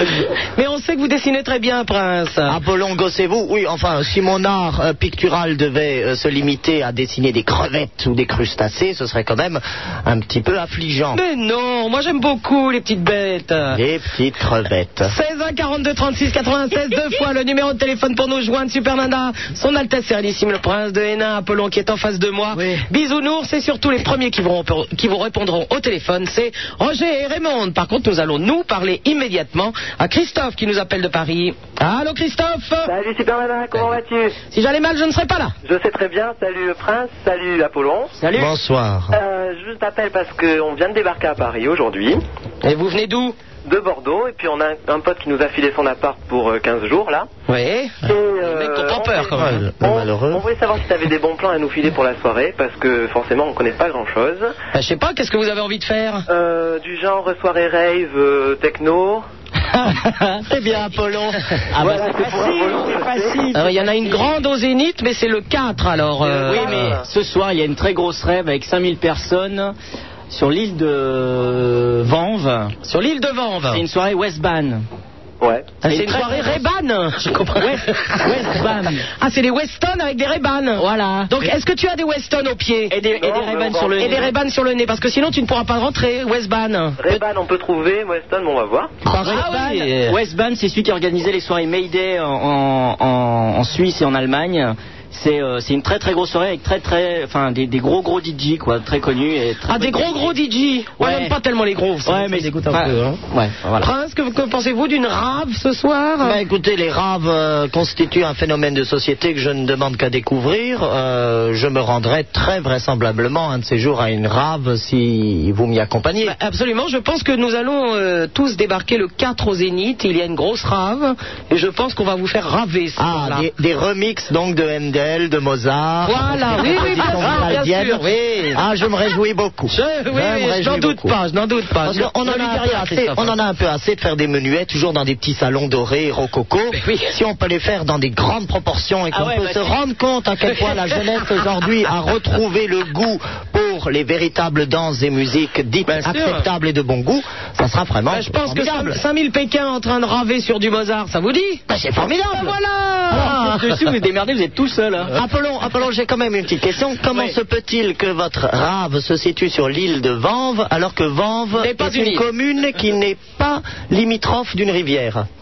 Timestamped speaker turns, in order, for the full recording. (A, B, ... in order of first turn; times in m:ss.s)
0:00.6-0:02.6 A
0:02.5-0:11.2 B
0:11.1-0:13.8 A
0:13.7-0:15.1 B
0:15.1-0:32.9 A
0:22.5-0:22.8 C
0:32.8-0:34.4 D
0:34.5-0:35.5 A
0:35.6-0:38.2 D
0:38.2-0:38.5 C
0:38.3-0:39.2 B
0:39.1-0:42.2 D
0:42.6-0:43.4 A
0:43.7-0:47.3 D
0:47.5-0:49.6 A
0:48.0-0:54.6 D
0:49.3-0:50.4 B
0:54.7-0:56.3 A
0:56.3-0:59.3 D
0:59.8-1:00.4 C
1:00.5-1:01.4 B
1:01.7-1:04.3 C
1:01.8-1:03.5 D
1:03.5-1:07.0 A
1:06.3-1:07.0 D
1:06.4-1:09.7 C
1:10.3-1:12.8 C
1:12.8-1:13.8 A
1:13.7-1:14.8 C
1:15.4-1:15.7 D
1:15.8-1:16.6 C
1:15.8-1:18.5 A
1:17.6-1:19.1 C
1:19.2-1:22.9 A
1:20.8-1:21.4 C
1:22.9-1:24.3 C
1:23.2-1:24.3 D
1:24.0-1:27.0 A
1:27.0-1:29.0 D
1:29.0-1:29.5 B
1:29.2-1:30.2 A
1:29.2-1:40.4 C
1:39.7-1:43.2 A
1:41.0-1:41.3 C
1:42.0-1:43.9 C
1:43.8-1:46.4 A
1:46.2-1:56.4 B
1:56.2-2:03.4 A
2:03.0-2:11.2 B
2:06.0-2:08.6 A
2:06.9-2:07.2 C
2:09.7-2:13.3 A
2:11.8-2:29.0 B
2:16.8-2:17.1 A
2:19.1-2:19.8 C
2:25.9-2:26.4 A
2:28.1-2:31.6 A
2:31.7-2:32.6 B
2:32.3-2:33.4 A
2:33.1-2:35.1 C
2:35.1-2:45.3 B
2:41.6-2:42.2 A